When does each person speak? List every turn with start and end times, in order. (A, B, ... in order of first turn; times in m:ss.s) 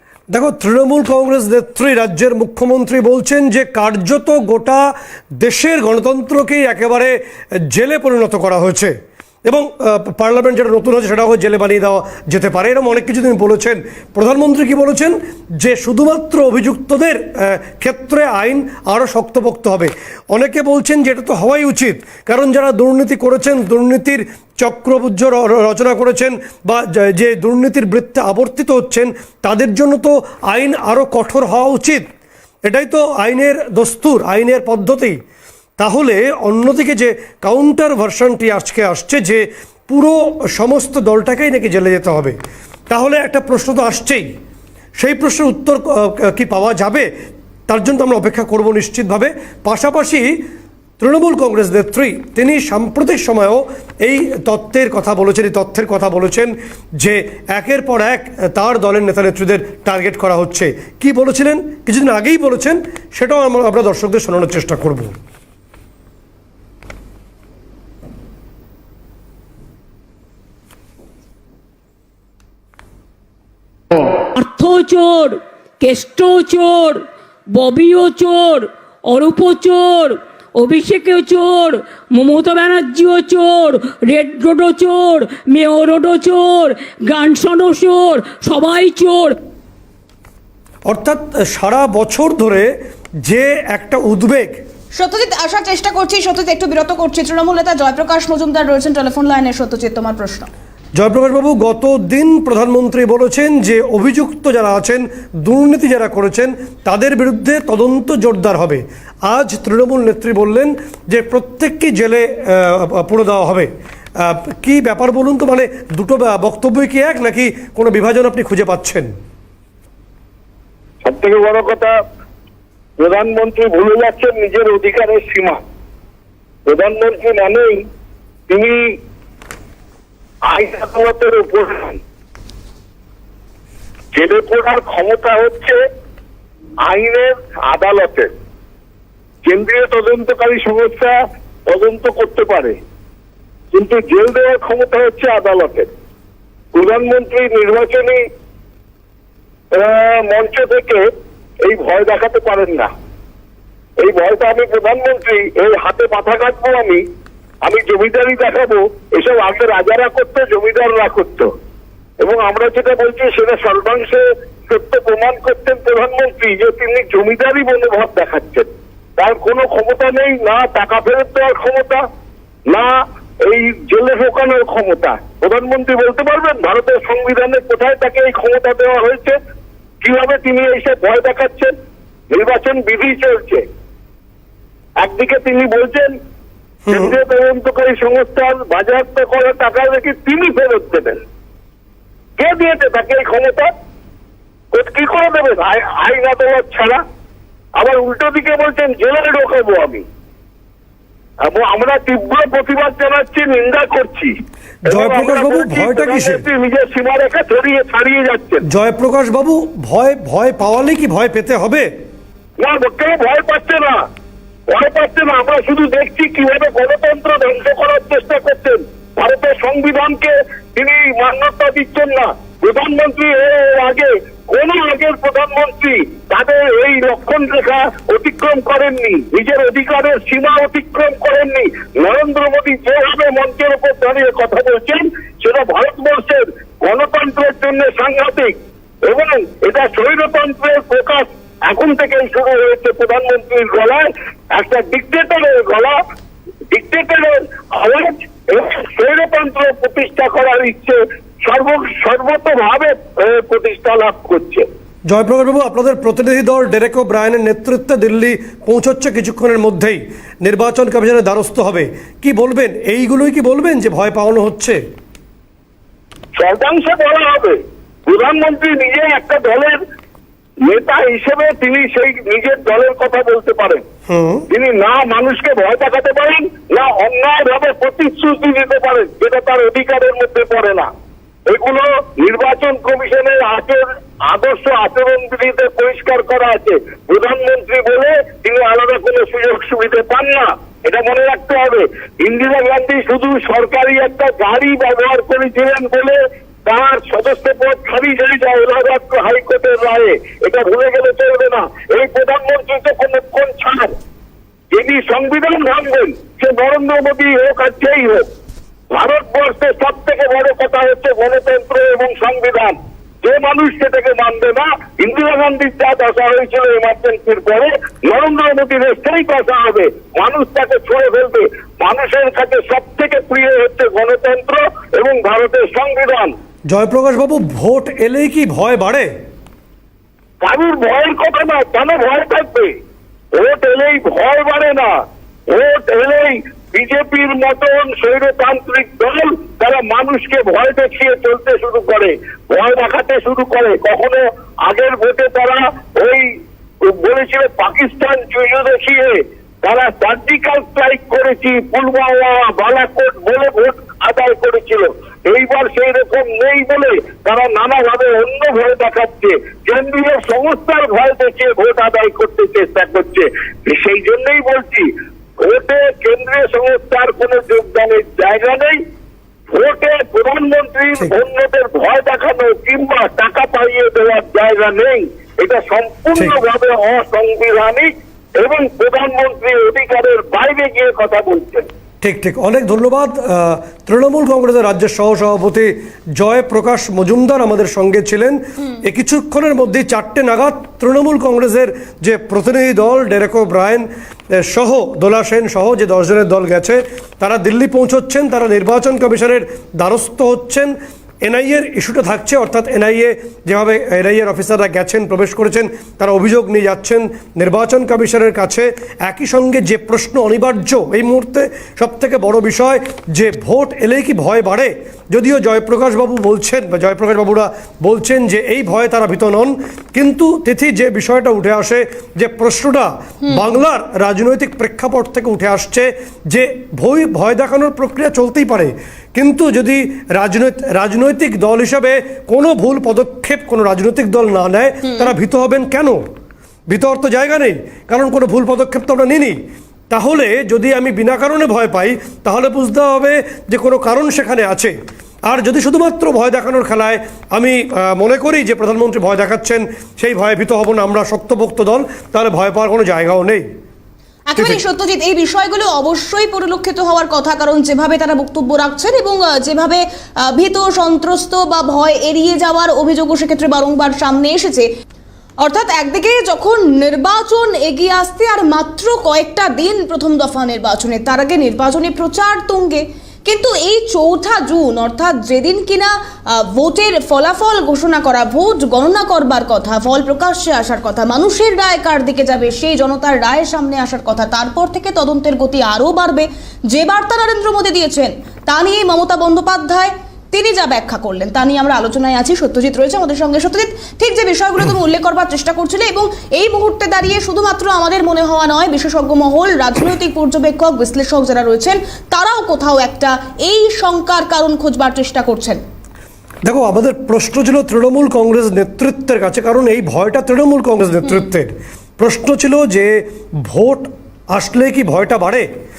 0:00.3-0:07.2 A
0:07.7-0:08.9 A
0:09.5-0:32.1 A
0:32.6-0:35.2 A
0:35.8-0:42.4 A
0:42.9-0:44.3 A
0:45.0-0:47.1 A
0:47.7-0:50.4 A
0:51.0-1:05.1 A
1:14.3-1:17.0 B
1:17.5-1:29.4 B
1:30.9-1:34.6 A
1:34.9-1:40.5 C
1:41.0-1:59.1 A
2:01.0-2:01.9 D
2:03.0-2:05.6 D
2:06.6-2:07.8 D
2:08.5-2:08.8 D
2:10.5-2:12.0 D
2:14.1-2:15.8 D
2:16.9-2:18.3 D
2:19.4-2:21.1 D
2:21.7-2:22.8 D
2:23.7-2:25.9 D
2:26.7-2:28.2 D
2:29.8-2:31.0 D
2:31.6-2:32.9 D
2:34.0-2:37.0 D
2:37.6-2:41.5 D
2:42.2-2:48.7 D
2:49.2-2:52.0 D
2:53.5-2:59.4 D
3:00.0-3:01.7 D
3:02.3-3:03.6 D
3:05.0-3:06.1 D
3:06.9-3:07.1 A
3:06.9-3:11.2 D
3:12.4-3:13.7 D
3:14.7-3:17.0 D
3:17.8-3:20.0 D
3:21.4-3:24.3 D
3:24.9-3:26.4 A
3:24.9-3:28.6 D
3:28.7-3:31.9 A
3:32.6-3:34.0 D
3:34.7-3:58.5 D
3:59.0-4:05.9 D
4:06.7-4:14.6 D
4:15.1-4:24.8 A
4:26.4-4:29.8 D
4:30.7-4:33.8 D
4:34.1-4:34.4 A
4:34.5-4:40.9 D
4:41.5-5:03.9 D
5:04.7-5:08.3 D
5:08.9-5:26.3 D
5:26.7-5:29.1 A
5:30.4-5:32.7 D
5:33.4-5:34.9 D
5:35.5-5:46.2 D
5:46.9-6:04.9 D
6:05.4-6:08.8 D
6:09.5-6:21.7 D
6:22.0-7:16.0 A
7:16.7-7:19.4 A
7:19.9-7:24.7 A
7:25.3-7:33.4 A
7:34.3-7:44.7 C
7:34.4-7:34.6 A
7:45.4-8:25.6 C
8:26.4-8:35.5 A